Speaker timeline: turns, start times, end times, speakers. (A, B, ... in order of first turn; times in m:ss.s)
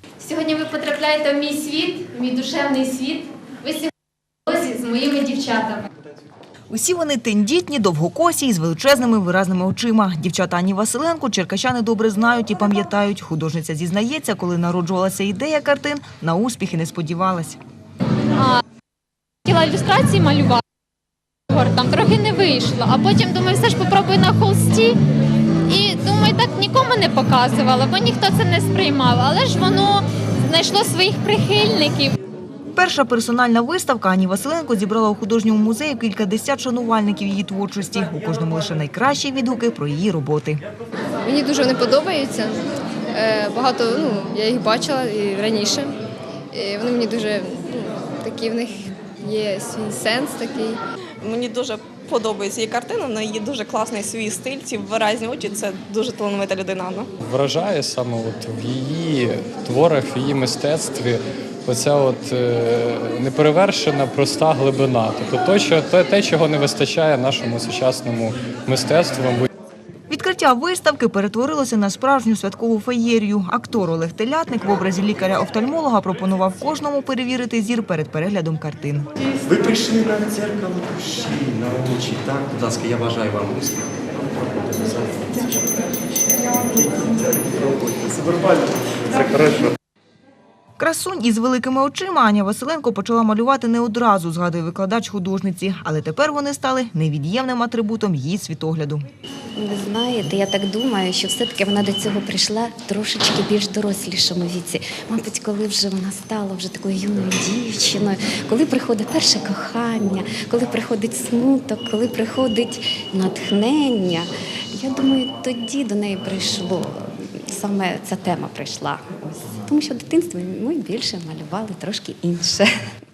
0:00.2-0:03.9 A
0:04.5-0:05.8 A
0:06.7-0:17.6 B
0:19.4-0:20.6 A
0:21.5-0:24.9 A
0:25.7-0:32.1 A
0:32.7-0:40.6 B
0:41.2-0:42.6 C
0:43.1-0:45.9 C
0:46.5-0:50.8 C
0:51.2-0:57.1 D
0:57.2-1:09.5 E
1:10.1-1:19.1 B
1:19.4-1:25.9 F
1:26.5-1:29.7 F
1:30.8-1:39.0 B
1:39.6-1:56.9 G
1:57.5-2:02.7 G